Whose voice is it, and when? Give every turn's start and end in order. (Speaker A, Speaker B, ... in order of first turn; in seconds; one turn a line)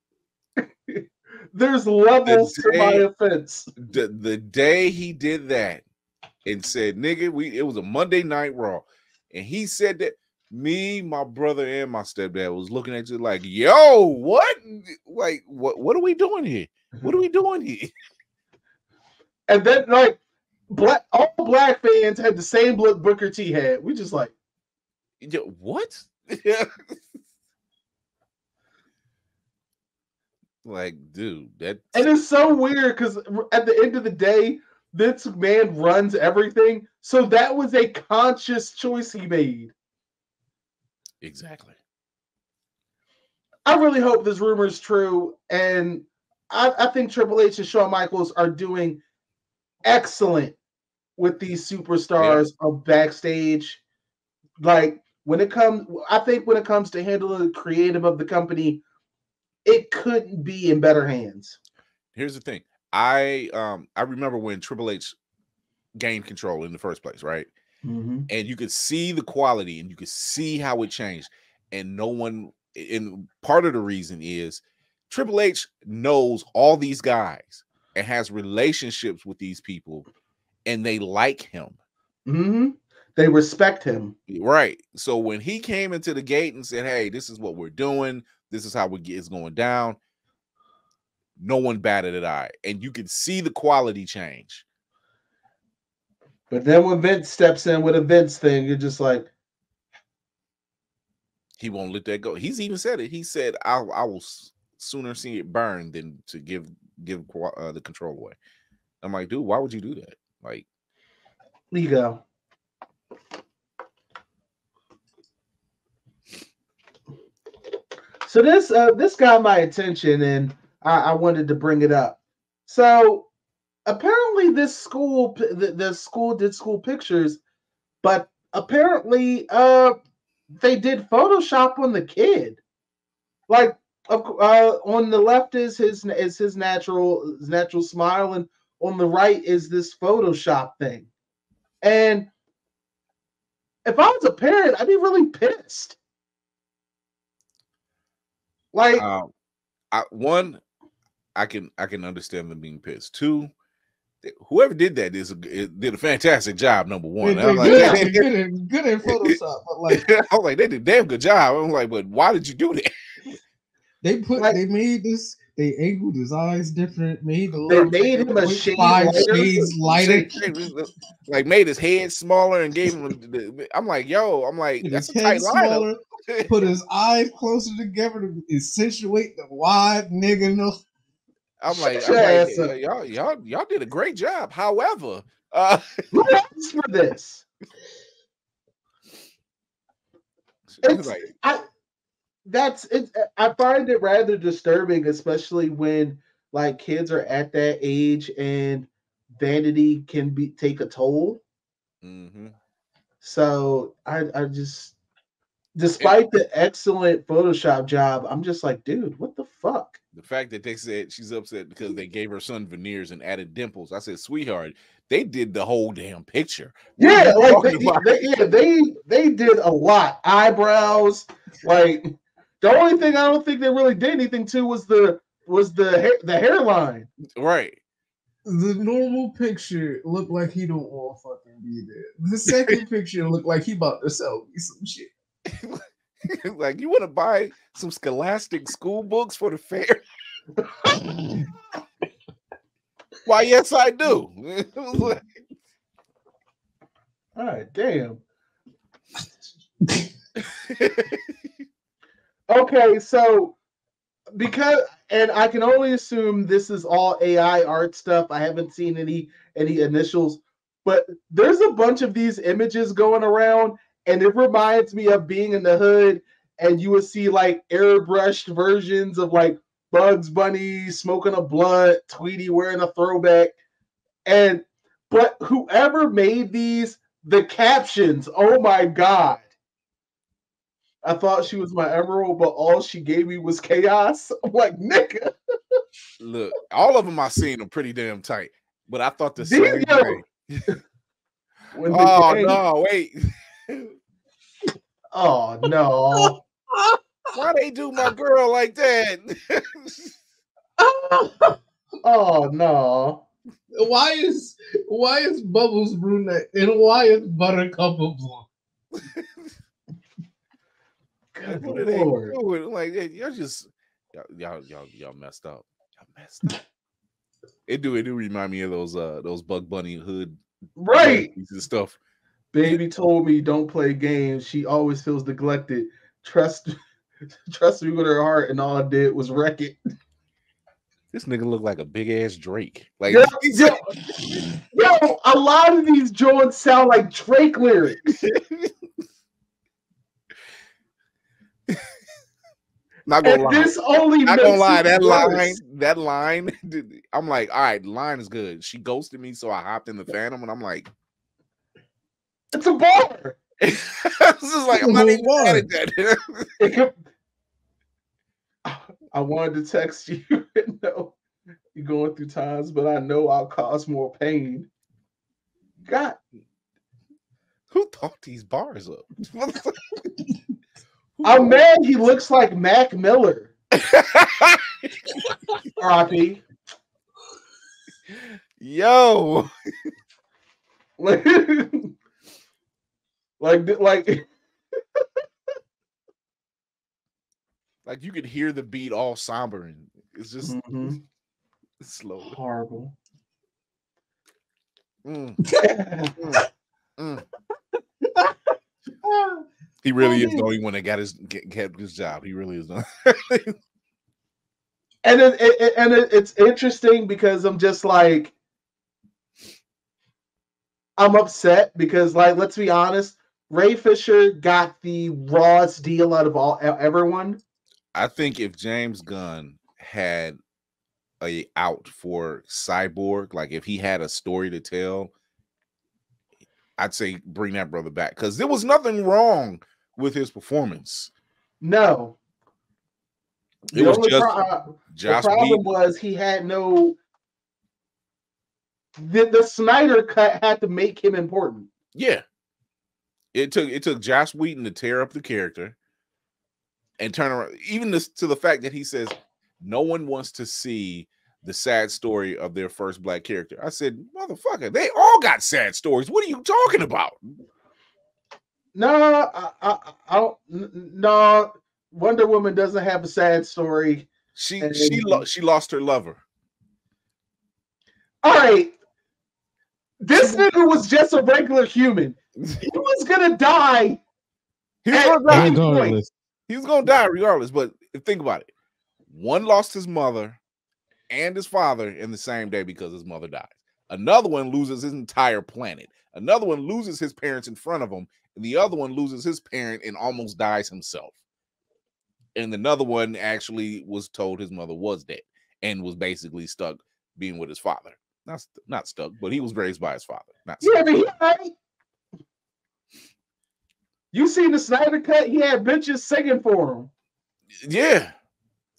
Speaker A: 0.6-3.7
Speaker B: 2.3-3.1
Speaker B: 3.8-5.8
Speaker B: 6.5-17.9
Speaker A: 19.5-24.3
Speaker B: 25.2-26.9
Speaker B: 30.6-32.1
Speaker A: 31.9-39.7
Speaker B: 41.2-41.8
Speaker A: 43.7-49.0
Speaker A: 49.9-50.6
Speaker A: 51.2-53.8
Speaker A: 54.6-58.8
Speaker A: 59.6-61.6
Speaker B: 62.1-65.2
Speaker B: 66.0-67.5
Speaker A: 67.8-68.3
Speaker B: 68.3-80.1
Speaker B: 80.7-81.8
Speaker A: 82.3-84.1
Speaker B: 84.3-90.0
Speaker B: 91.4-94.7
Speaker A: 96.5-99.3
Speaker B: 101.6-108.4
Speaker B: 109.0-110.7
Speaker A: 111.7-112.2
Speaker A: 118.2-123.3
Speaker A: 123.9-127.4
Speaker A: 128.0-130.0
Speaker A: 130.6-132.6
Speaker A: 133.5-141.1
Speaker A: 141.8-142.3
Speaker A: 143.8-146.0
Speaker A: 148.7-149.1
Speaker B: 149.0-149.3
Speaker B: 149.9-150.6
Speaker B: 151.3-153.5
Speaker B: 154.2-158.3
Speaker C: 157.2-160.1
Speaker A: 157.6-158.1
Speaker B: 159.1-159.3
Speaker B: 159.9-162.9
Speaker C: 164.0-170.4
Speaker A: 167.7-170.2
Speaker B: 167.8-176.5
Speaker C: 174.8-180.8
Speaker B: 181.6-186.0
Speaker A: 181.7-182.7
Speaker A: 186.1-187.5
Speaker B: 190.7-191.3
Speaker A: 190.8-191.7
Speaker A: 192.4-201.4
Speaker B: 202.0-202.6
Speaker A: 203.2-205.0
Speaker A: 205.8-210.0
Speaker B: 210.1-218.3
Speaker A: 217.0-227.1
Speaker B: 227.4-227.8
Speaker C: 228.4-235.1
Speaker B: 232.5-232.8
Speaker B: 235.5-240.0
Speaker B: 243.3-245.2
Speaker A: 247.4-248.2
Speaker B: 250.5-251.2
Speaker A: 252.5-253.6
Speaker A: 254.3-273.5
Speaker A: 274.3-279.5
Speaker A: 281.0-285.3
Speaker B: 286.2-290.7
Speaker A: 289.4-290.8
Speaker A: 291.7-292.6
Speaker B: 291.9-293.9
Speaker A: 295.1-296.4
Speaker C: 296.1-297.4
Speaker B: 297.3-300.1
Speaker C: 300.8-301.6
Speaker A: 302.0-303.2
Speaker C: 303.7-308.5
Speaker A: 311.3-312.4
Speaker B: 311.6-316.6
Speaker B: 317.7-320.4
Speaker A: 320.8-321.3
Speaker B: 320.9-322.0
Speaker A: 322.5-326.8
Speaker A: 327.5-329.8
Speaker B: 331.1-333.8
Speaker A: 333.1-333.9
Speaker A: 334.7-338.2
Speaker B: 338.2-338.7
Speaker B: 343.1-350.9
Speaker A: 343.2-345.6
Speaker A: 352.5-353.4
Speaker B: 353.6-356.5
Speaker C: 354.7-355.7
Speaker A: 356.6-356.9
Speaker A: 358.6-361.2
Speaker A: 361.8-364.7
Speaker A: 365.9-366.2
Speaker B: 367.7-369.9
Speaker B: 371.2-371.6
Speaker A: 371.2-373.5
Speaker B: 373.8-374.9
Speaker A: 375.8-376.4
Speaker B: 378.1-379.5
Speaker A: 381.0-381.9
Speaker A: 383.4-384.3
Speaker B: 387.9-390.9
Speaker A: 390.4-391.0
Speaker B: 391.8-392.4
Speaker A: 392.3-392.9
Speaker B: 395.1-395.5
Speaker A: 395.6-396.2
Speaker B: 396.2-396.4
Speaker B: 397.0-397.2
Speaker B: 399.8-403.6
Speaker C: 400.0-400.5
Speaker A: 405.0-408.3
Speaker A: 411.0-417.4
Speaker B: 417.9-420.4
Speaker B: 421.2-425.1
Speaker B: 426.8-431.1
Speaker A: 431.6-432.2
Speaker B: 433.7-435.7
Speaker A: 433.7-437.0
Speaker A: 439.0-441.7
Speaker B: 441.9-442.2
Speaker B: 443.3-445.8
Speaker B: 447.0-457.2
Speaker A: 458.8-464.1
Speaker B: 464.4-466.2
Speaker A: 464.6-465.2
Speaker A: 468.2-468.8
Speaker A: 470.0-474.0
Speaker B: 470.2-470.4
Speaker B: 474.9-475.7
Speaker A: 474.9-476.0
Speaker C: 475.3-476.1
Speaker B: 476.5-478.5
Speaker B: 479.1-480.4
Speaker B: 481.1-491.2
Speaker B: 492.4-501.1
Speaker A: 500.6-501.5
Speaker A: 504.1-506.9
Speaker B: 507.6-508.1